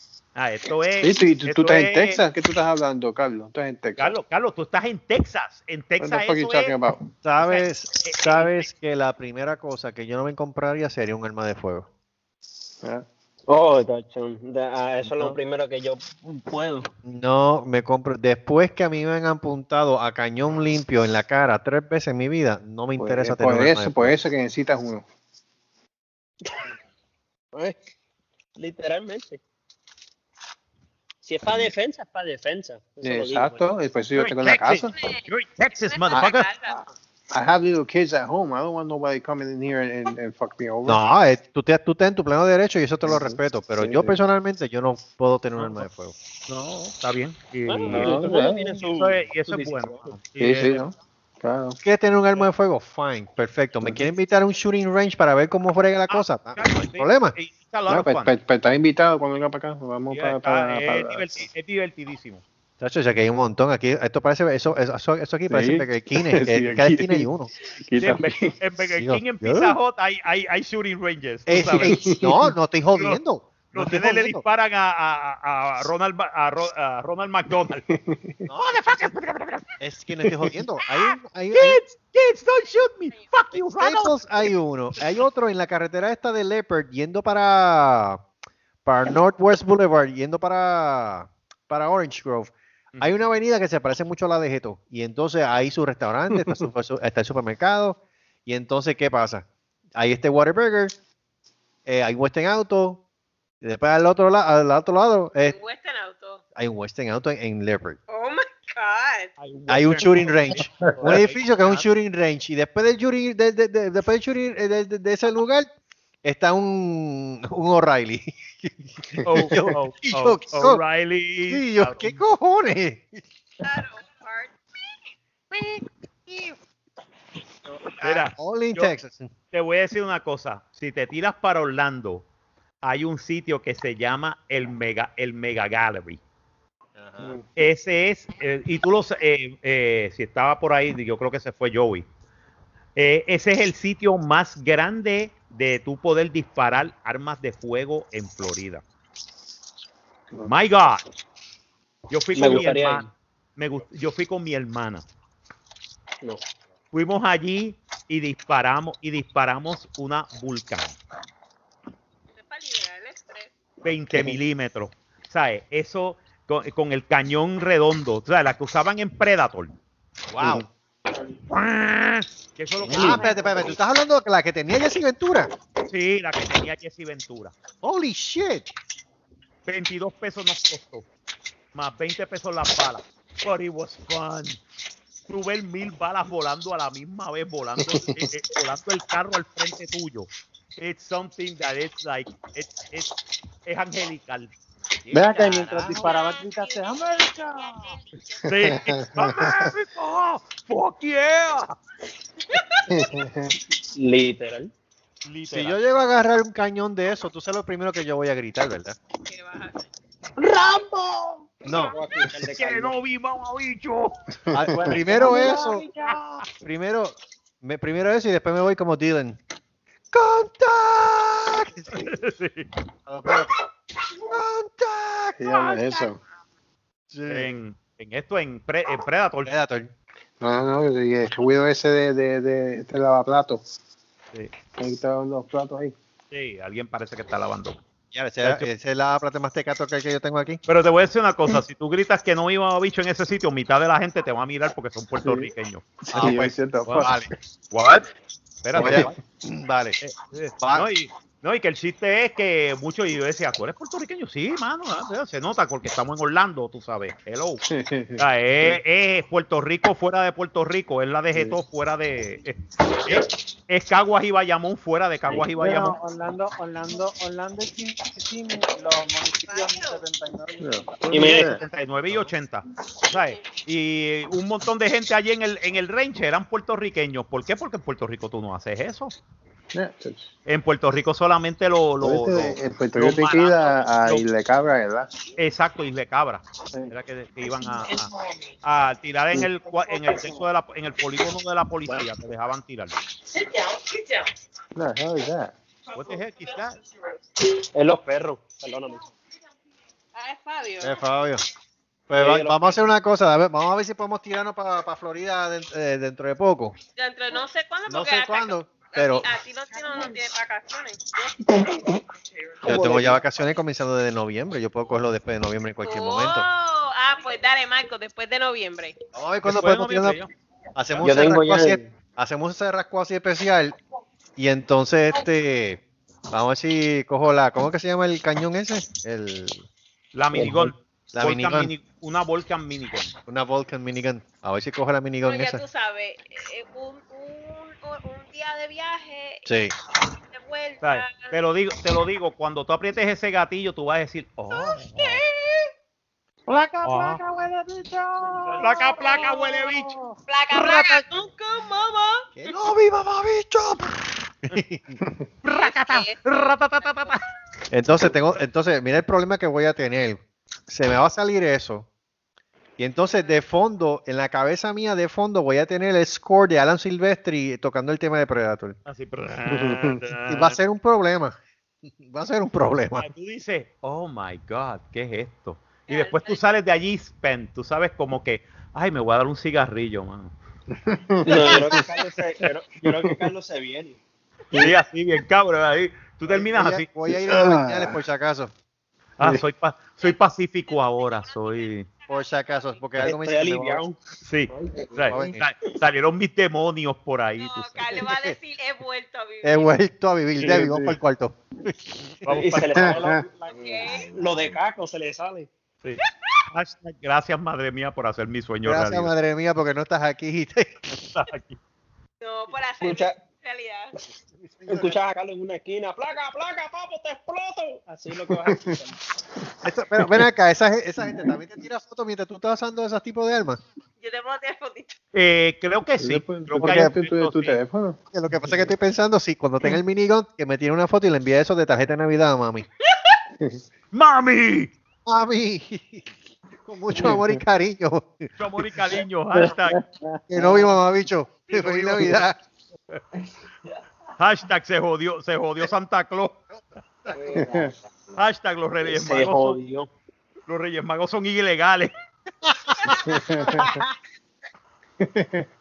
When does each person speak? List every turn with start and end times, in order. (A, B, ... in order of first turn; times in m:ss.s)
0:00.4-0:02.2 A
0:01.0-0:04.2 B
0:04.0-0:06.8 A
0:06.0-0:07.1 B
0:07.2-0:11.9 C
0:07.4-0:08.6 A
0:13.5-0:16.9 D
0:15.0-0:15.4 C
0:17.0-0:24.2 C
0:23.0-0:25.0 B
0:27.5-0:27.8 D
0:28.6-0:29.4 D
0:31.2-0:33.7 D
0:33.0-0:35.0 B
0:34.2-0:36.4 A
0:34.9-0:36.8 E
0:36.1-0:41.0 B
0:40.9-0:46.2 C
0:43.0-0:44.2 B
0:45.6-0:45.9 A
0:46.5-0:48.3 A
0:47.7-0:50.2 D
0:47.9-0:48.9 B
0:48.9-0:50.9 A
0:50.4-0:51.8 B
0:51.8-0:57.4 C
0:56.1-0:58.3 A
0:57.9-1:01.5 B
1:00.1-1:02.4 A
1:02.8-1:07.5 C
1:05.5-1:07.3 B
1:07.8-1:08.6 B
1:08.0-1:12.0 A
1:09.0-1:09.7 C
1:11.5-1:14.4 C
1:12.0-1:12.4 B
1:13.0-1:13.2 A
1:13.7-1:17.9 A
1:17.9-1:18.4 B
1:18.4-1:19.1 C
1:18.6-1:19.7 A
1:19.8-1:21.8 C
1:20.2-1:24.3 A
1:22.7-1:23.4 E
1:23.7-1:28.2 C
1:28.8-1:39.4 C
1:40.0-1:41.0 C
1:41.9-1:43.0 C
1:43.6-1:45.6 C
1:45.4-1:46.4 E
1:46.6-1:48.0 C
1:48.1-1:49.3 E
1:49.4-1:51.9 A
1:49.7-1:55.7 C
1:56.2-2:00.8 C
1:59.2-2:02.1 A
2:01.5-2:03.2 C
2:03.6-2:04.9 E
2:05.5-2:06.5 C
2:08.0-2:09.3 C
2:08.0-2:08.9 A
2:09.5-2:12.3 A
2:12.8-2:16.2 A
2:17.0-2:17.4 C
2:17.6-2:22.1 A
2:23.0-2:28.8 A
2:30.4-2:31.0 A
2:32.1-2:35.0 A
2:32.4-2:33.1 D
2:36.9-2:41.0 A
2:42.3-2:43.5 E
2:43.8-2:49.8 A
2:50.3-2:50.7 A
2:51.5-2:53.8 A
2:52.9-2:55.5 C
2:55.9-2:57.6 A
2:57.8-2:58.7 C
2:59.7-3:01.1 A
3:01.7-3:04.6 A
3:05.3-3:13.2 A
3:13.7-3:14.5 A
3:15.0-3:16.2 A
3:15.1-3:18.0 F
3:15.8-3:18.8 E
3:18.4-3:19.7 B
3:18.5-3:21.8 A
3:22.5-3:23.1 E
3:22.9-3:23.6 B
3:23.9-3:24.7 D
3:25.2-3:25.8 A
3:25.5-3:29.0 C
3:29.3-3:29.9 E
3:31.6-3:32.0 C
3:31.7-3:31.9 E
3:31.7-3:32.9 D
3:32.5-3:34.2 A
3:34.5-3:35.4 B
3:34.5-3:35.8 C
3:34.8-3:35.7 D
3:34.8-3:36.1 F
3:36.6-3:39.4 C
3:40.1-3:42.1 C
3:42.0-3:42.7 A
3:43.1-3:43.6 C
3:44.3-3:46.1 C
3:45.4-3:46.2 B
3:47.1-3:47.5 C
3:47.3-3:49.5 A
3:49.4-3:49.9 C
3:50.4-3:53.6 B
3:54.8-3:56.0 B
3:56.3-3:57.8 A
3:58.1-4:00.6 C
3:58.4-3:58.7 A
4:00.7-4:07.1 A
4:05.2-4:05.5 B
4:06.1-4:07.2 B
4:06.1-4:07.3 C
4:07.7-4:08.0 A
4:08.6-4:09.2 A
4:08.7-4:10.0 C
4:08.8-4:09.1 B
4:10.0-4:17.6 A
4:10.6-4:10.9 C
4:17.7-4:18.8 B
4:18.2-4:26.0 A
4:21.3-4:21.6 B
4:25.6-4:31.3 F
4:29.5-4:30.0 E
4:30.6-4:31.6 B
4:31.1-4:31.5 D
4:31.1-4:39.2 A
4:33.1-4:33.4 E
4:39.7-4:40.3 B
4:40.4-4:44.2 A
4:42.0-4:45.3 B
4:45.4-4:48.1 A
4:48.6-4:52.9 A
4:53.6-4:54.2 E
4:54.7-4:55.5 B
4:56.0-4:56.8 A
4:56.0-4:57.2 E
4:57.7-4:59.0 D
4:58.7-4:59.2 E
5:00.1-5:01.1 E
5:00.8-5:01.4 C
5:02.1-5:06.8 C
5:02.2-5:02.8 D
5:07.0-5:11.5 E
5:07.9-5:09.3 C
5:12.6-5:16.5 C
5:12.7-5:13.2 D
5:15.8-5:19.0 E
5:19.1-5:20.2 C
5:19.4-5:20.3 A
5:20.7-5:23.8 C
5:20.9-5:21.3 A
5:21.0-5:21.9 D
5:24.4-5:29.6 C
5:30.1-5:33.1 A
5:30.3-5:30.7 D
5:31.1-5:31.7 C
5:33.3-5:35.6 C
5:35.2-5:39.5 E
5:39.4-5:39.7 C
5:40.1-5:41.4 E
5:40.8-5:45.0 A
5:44.5-5:45.7 E
5:46.5-5:48.7 F
5:46.8-5:47.2 A
5:48.6-5:52.6 E
5:48.6-5:49.9 A
5:52.4-5:55.0 C
5:55.4-5:57.2 A
5:55.5-5:56.2 E
5:56.8-5:57.2 E
5:57.7-6:01.9 C
6:02.8-6:08.8 C
6:03.1-6:03.4 E
6:08.9-6:10.6 A
6:09.4-6:09.9 B
6:10.3-6:11.4 C
6:11.9-6:13.1 C
6:13.0-6:20.3 A
6:15.9-6:16.4 E
6:20.8-6:21.9 B
6:21.2-6:24.0 D
6:22.9-6:23.2 B
6:24.6-6:26.9 A
6:26.5-6:28.5 C
6:27.1-6:28.0 B
6:29.2-6:31.9 A
6:30.0-6:32.8 E
6:32.1-6:33.8 C
6:33.0-6:34.0 D
6:34.2-6:38.0 A
6:34.9-6:35.4 C
6:37.4-6:39.8 E
6:38.0-6:38.4 C
6:39.4-6:41.8 C
6:40.4-6:41.0 B
6:42.1-6:43.1 A
6:42.3-6:45.5 D
6:42.8-6:44.4 B
6:43.3-6:44.1 E
6:45.8-6:49.1 A
6:48.6-6:51.0 C
6:51.2-6:51.6 A
6:52.2-6:54.0 E
6:52.8-6:53.2 D
6:54.3-6:55.0 C
6:54.7-6:59.0 D
6:58.4-6:58.8 B
6:59.6-7:03.6 C
7:00.0-7:00.2 B
7:01.0-7:01.4 B
7:04.0-7:05.0 E
7:05.1-7:07.6 A
7:06.0-7:08.0 B
7:06.6-7:07.0 C
7:08.1-7:12.7 C
7:13.9-7:14.7 A
7:15.1-7:16.1 C
7:16.6-7:18.3 C
7:17.0-7:17.4 B
7:18.4-7:19.8 A
7:20.3-7:22.4 C
7:21.5-7:22.2 A
7:24.2-7:26.4 A
7:27.1-7:27.7 D
7:27.4-7:27.8 B
7:28.2-7:29.6 A
7:28.8-7:29.9 D
7:30.5-7:31.9 A
7:32.8-7:33.1 E
7:33.1-7:33.8 B
7:35.0-7:35.5 B